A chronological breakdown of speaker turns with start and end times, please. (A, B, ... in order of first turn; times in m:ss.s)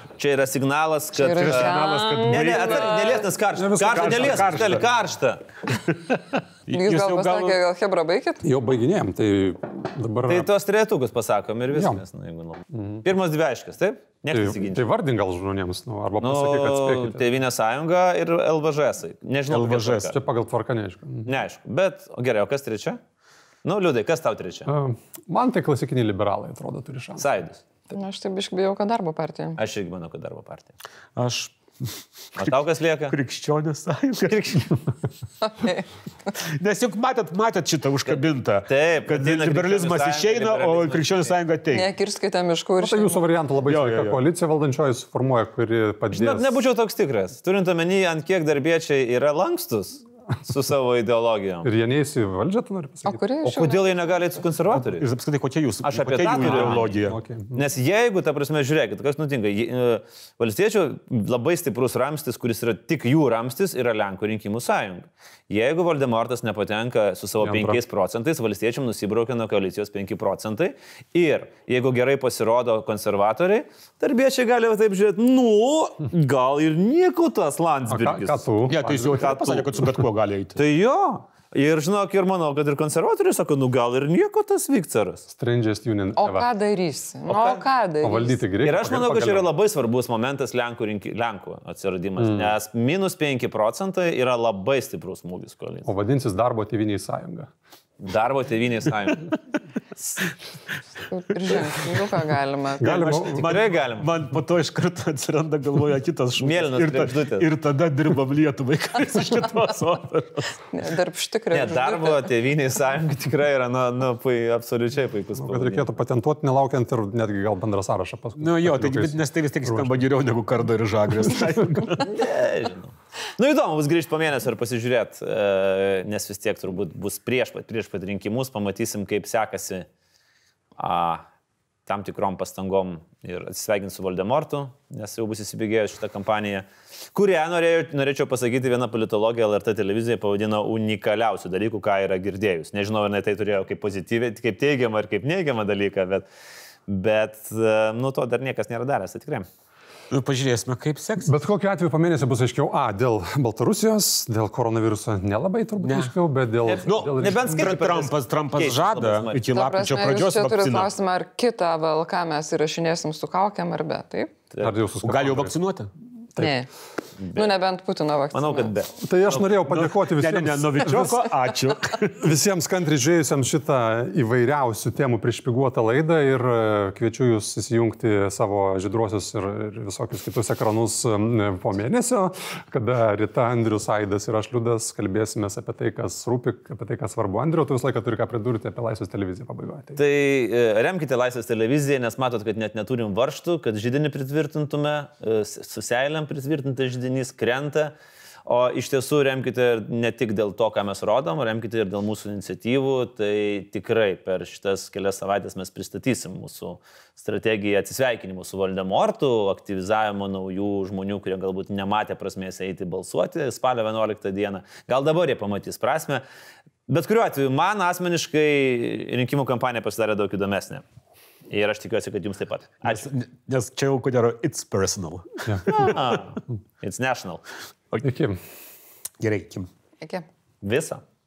0:00.2-0:01.7 A
0:01.1-0:03.3 B
0:01.3-0:03.2 C
0:02.3-0:05.4 A
0:03.5-0:04.8 D
0:03.8-0:04.8 C
0:05.7-0:07.6 C
0:06.7-0:08.4 B
0:08.4-0:10.5 D
0:10.3-0:14.8 A
0:11.7-0:12.0 D
0:12.7-0:13.0 D
0:14.3-0:17.2 D
0:16.2-0:20.2 A
0:19.5-0:20.1 C
0:20.1-0:21.3 D
0:21.2-0:23.0 A
0:23.6-0:24.7 A
0:24.7-0:27.3 D
0:27.2-0:27.6 A
0:27.9-0:29.6 B
0:29.6-0:30.7 A
0:31.2-0:32.5 C
0:32.4-0:33.2 A
0:33.1-0:34.8 C
0:34.3-0:34.7 A
0:35.4-0:35.8 B
0:36.4-0:41.9 C
0:38.1-0:41.4 A
0:41.7-0:43.2 B
0:42.8-0:46.5 D
0:43.6-0:44.2 C
0:46.1-0:51.7 A
0:51.6-0:53.2 D
0:53.0-0:54.4 B
0:53.4-0:55.1 A
0:54.7-0:57.2 C
0:55.8-0:57.0 A
0:56.4-0:57.6 D
0:57.5-1:19.7 A
1:07.4-1:07.8 D
1:17.9-1:19.6 D
1:18.7-1:20.6 C
1:20.6-1:25.2 A
1:25.3-1:26.5 D
1:26.2-1:28.4 B
1:27.3-1:27.6 A
1:28.0-1:29.5 D
1:28.6-1:35.9 A
1:32.2-1:32.5 D
1:35.8-1:37.5 D
1:38.0-1:39.3 A
1:41.1-1:43.4 B
1:42.8-1:43.5 D
1:43.2-1:50.6 C
1:43.4-1:44.1 A
1:46.4-1:47.5 A
1:50.7-1:52.3 B
1:51.5-1:55.9 A
1:55.4-2:00.0 D
1:58.4-2:02.1 C
2:02.0-2:09.9 A
2:10.8-2:11.2 A
2:11.8-2:26.2 A
2:26.9-2:29.5 A
2:30.1-2:31.3 C
2:31.2-2:37.7 D
2:35.8-2:36.1 C
2:36.6-2:39.4 A
2:36.8-2:40.9 C
2:39.5-2:44.3 B
2:44.6-2:45.5 D
2:45.0-2:45.9 C
2:46.4-2:46.7 B
2:47.2-2:47.5 A
2:47.3-2:48.7 B
2:48.3-2:49.4 A
2:49.0-2:51.3 D
2:49.7-2:52.2 C
2:52.2-3:10.0 D
3:10.0-3:17.9 A
3:18.4-3:36.2 A
3:36.9-3:40.8 A
3:41.5-3:43.1 A
3:42.8-3:46.2 C
3:45.7-3:47.4 A
3:48.0-3:48.4 D
3:49.2-3:49.7 C
3:50.0-3:50.2 B
3:50.6-3:51.0 A